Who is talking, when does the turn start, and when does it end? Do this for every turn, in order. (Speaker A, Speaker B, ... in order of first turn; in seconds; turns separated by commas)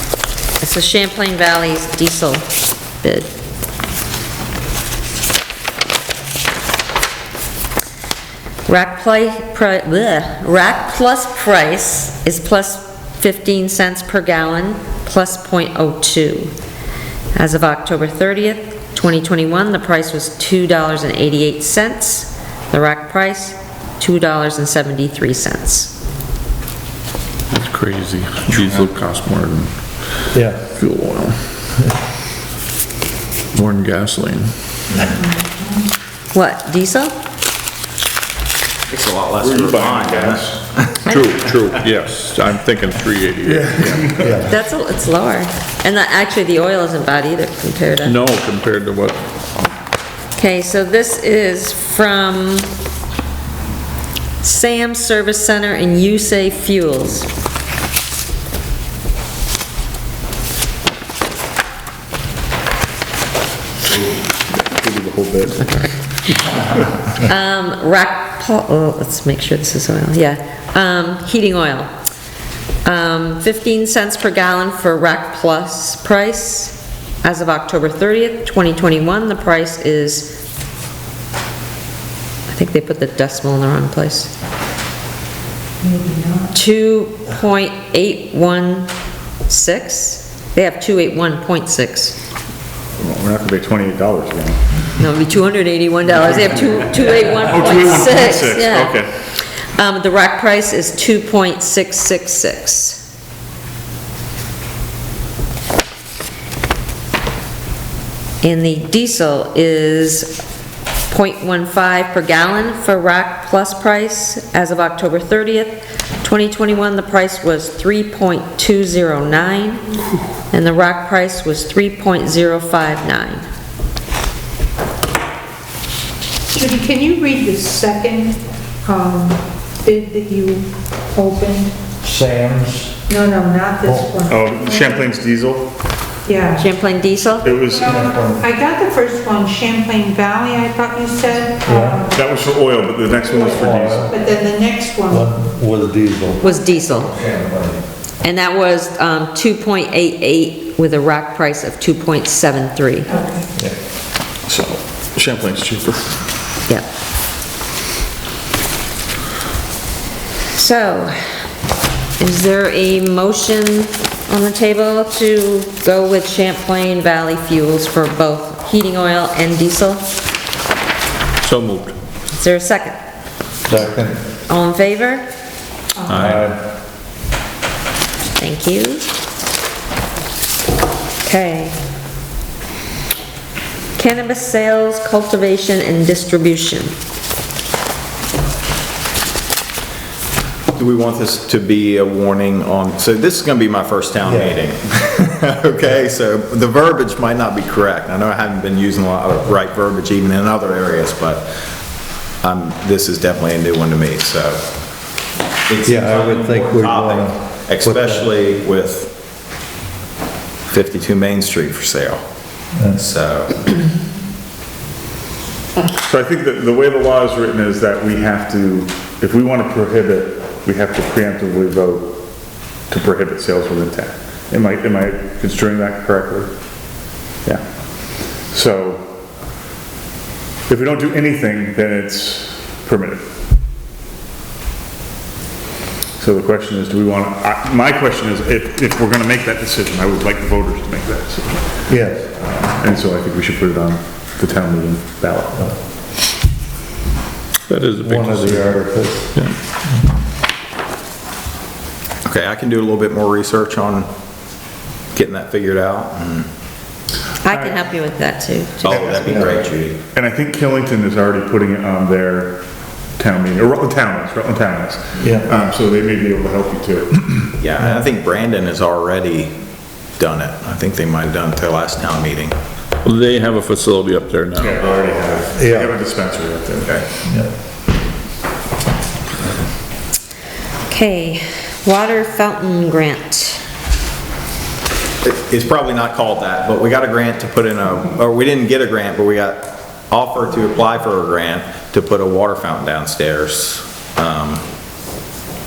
Speaker A: 0.6-2.5, Speaker A: 3.0-3.3, Speaker A: 8.7-16.5, Speaker A: 17.4-25.9, Speaker B: 27.5-29.7, Speaker C: 28.6-28.8, Speaker D: 30.3-30.6, Speaker B: 30.8-31.4, Speaker B: 33.5-34.5, Speaker A: 36.3-37.1, Speaker E: 38.9-41.1, Speaker C: 39.4-40.6, Speaker B: 41.0-44.3, Speaker D: 43.9-44.5, Speaker A: 44.5-48.2, Speaker B: 48.0-49.2, Speaker A: 50.4-52.7, Speaker A: 54.4-57.3, Speaker C: 64.1-65.8, Speaker A: 67.2-71.9, Speaker A: 72.8-80.4, Speaker A: 82.5-84.3, Speaker A: 86.5-88.9, Speaker A: 89.5-92.2, Speaker C: 93.0-94.6, Speaker A: 95.0-103.0, Speaker C: 97.2-99.1, Speaker A: 108.4-110.4, Speaker A: 111.1-119.8, Speaker A: 120.5-123.4, Speaker F: 126.5-131.7, Speaker D: 132.0-133.0, Speaker F: 133.1-135.1, Speaker D: 133.8-134.1, Speaker C: 134.3-135.7, Speaker F: 136.3-136.7, Speaker A: 136.6-137.6, Speaker C: 137.4-138.0, Speaker F: 137.7-142.1, Speaker D: 137.8-138.4, Speaker D: 141.7-142.1, Speaker C: 142.1-144.1, Speaker D: 143.4-144.2, Speaker F: 144.1-145.3, Speaker D: 145.1-147.8, Speaker A: 146.4-147.1, Speaker A: 148.2-153.1, Speaker F: 153.1-153.4, Speaker C: 154.5-156.2, Speaker A: 160.5-161.2, Speaker A: 162.2-170.0, Speaker B: 171.4-172.0, Speaker A: 172.3-173.0, Speaker D: 173.7-174.2, Speaker A: 174.5-175.2, Speaker E: 176.1-176.5, Speaker D: 176.1-176.6, Speaker A: 178.4-179.1, Speaker A: 181.2-181.8, Speaker A: 184.0-186.9, Speaker E: 190.8-201.5, Speaker D: 194.3-194.6, Speaker E: 202.4-204.6, Speaker E: 205.7-209.1, Speaker D: 205.8-208.2, Speaker E: 210.7-212.2, Speaker D: 212.8-213.0, Speaker E: 212.9-213.8, Speaker C: 216.1-222.2, Speaker C: 222.9-226.5, Speaker C: 228.5-229.1, Speaker C: 230.7-233.2, Speaker C: 236.2-241.8, Speaker D: 241.9-242.3, Speaker C: 242.4-245.7, Speaker B: 247.7-249.6, Speaker D: 248.0-249.3, Speaker E: 252.2-254.1, Speaker E: 255.1-256.5, Speaker A: 257.4-259.3, Speaker E: 258.8-260.0, Speaker C: 258.9-259.4, Speaker D: 259.2-259.6, Speaker C: 260.1-262.6, Speaker C: 263.2-267.4, Speaker D: 265.2-265.6, Speaker E: 267.6-269.5, Speaker E: 270.2-272.6, Speaker B: 273.0-274.9, Speaker C: 274.6-277.0, Speaker D: 275.6-275.9, Speaker A: 280.9-283.6, Speaker E: 285.2-294.6